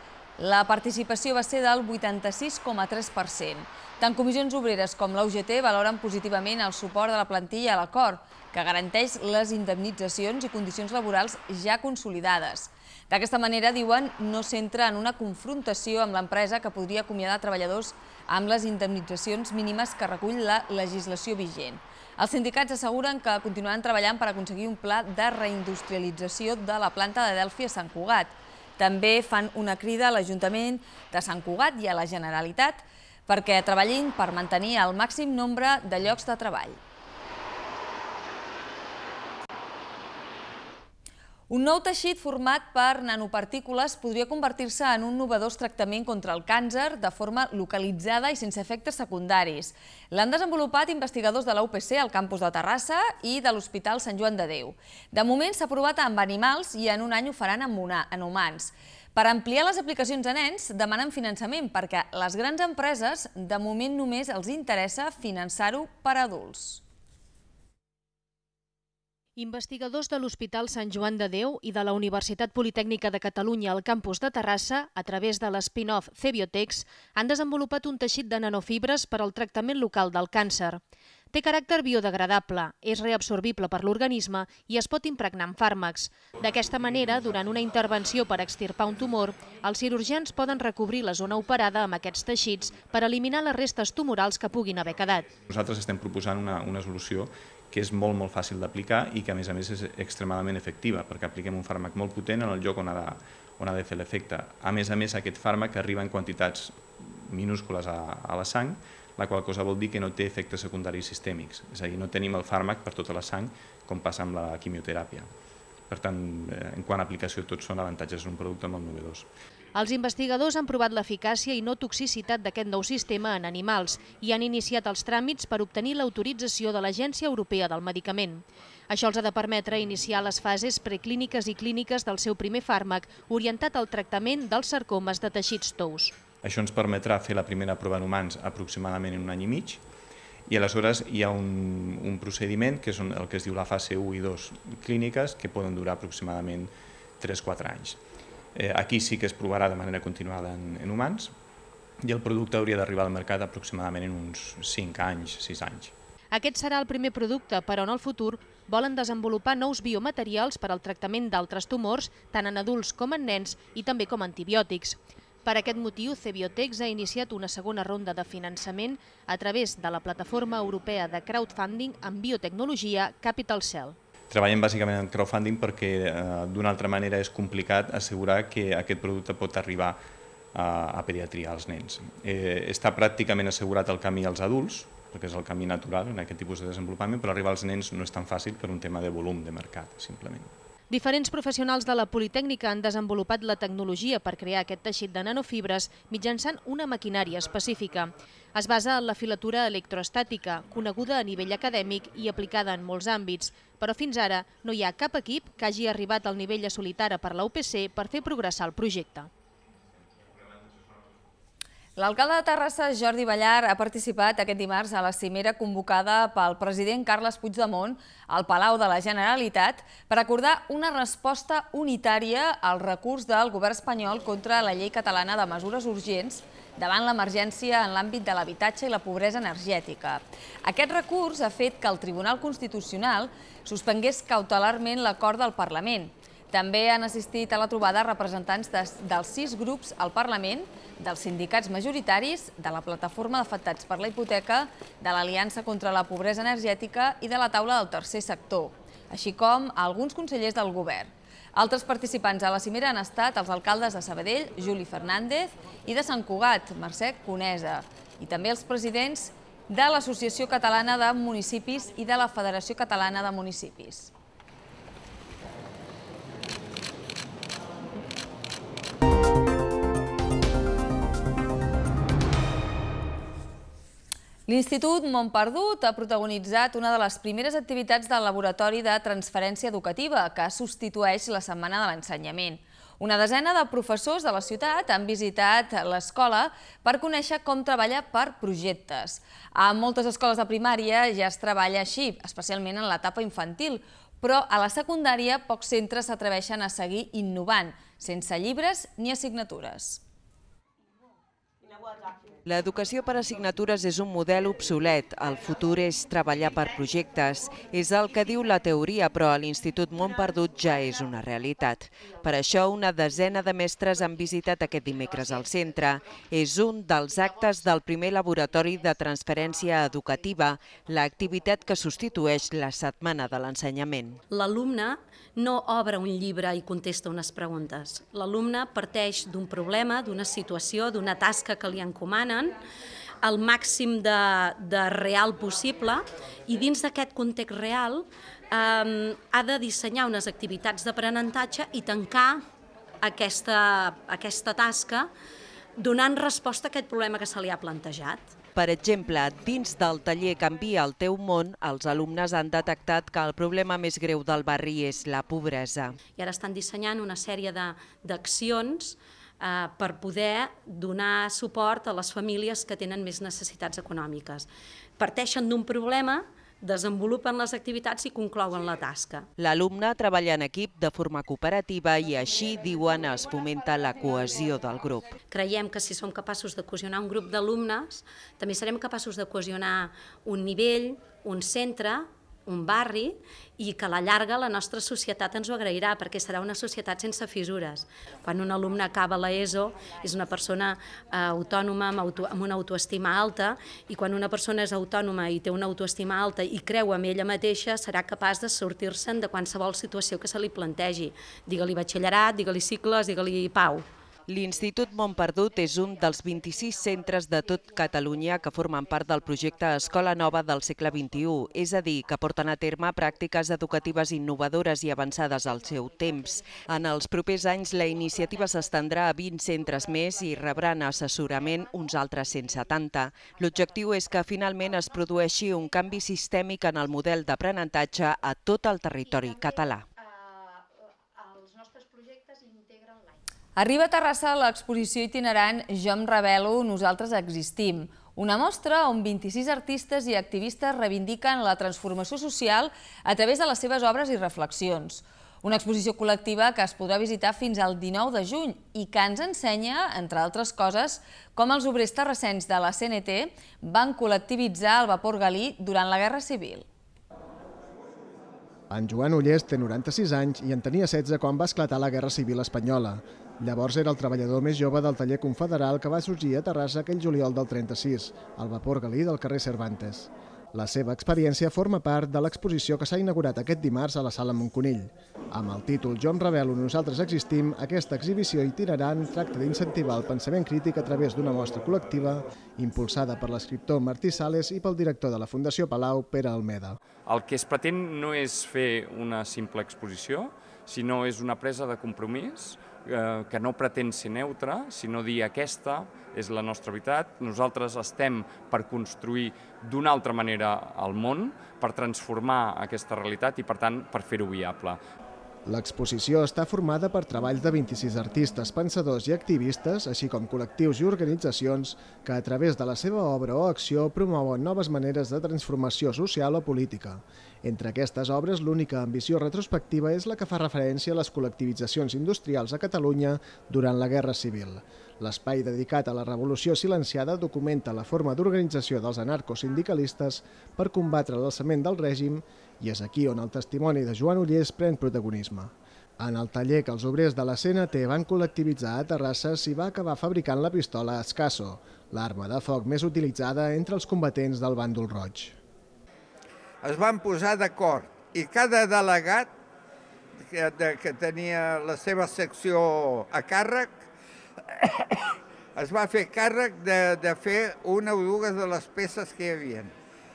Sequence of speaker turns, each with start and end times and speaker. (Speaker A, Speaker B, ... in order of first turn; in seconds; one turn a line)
Speaker A: 0.4-36.8
Speaker A: 41.5-66.8
Speaker B: 69.4-80.8
Speaker B: 81.3-95.3
Speaker C: 95.5-115.3
Speaker C: 115.9-119.3
Speaker B: 119.7-136.1
Speaker C: 136.4-139.8
Speaker C: 140.5-148.0
Speaker C: 148.5-151.3
Speaker C: 152.0-155.9
Speaker B: 156.3-173.9
Speaker C: 174.3-180.0
Speaker C: 180.5-190.5
Speaker B: 190.9-209.3
Speaker A: 212.0-264.1
Speaker A: 274.5-300.0
Speaker D: 302.4-324.2
Speaker E: 324.3-332.6
Speaker E: 333.2-342.4
Speaker E: 343.0-345.1
Speaker E: 345.8-348.4
Speaker D: 348.5-355.9
Speaker E: 356.1-364.5
Speaker E: 365.0-369.3
Speaker D: 369.4-375.1
Speaker E: 375.3-403.9
Speaker D: 404.3-429.8
Speaker A: 433.6-456.6
Speaker F: 458.7-486.8
Speaker G: 487.0-504.8
Speaker F: 505.4-545.4
Speaker H: 546.6-549.3
Speaker H: 550.2-553.8
Speaker H: 554.5-554.9
Speaker H: 555.5-559.7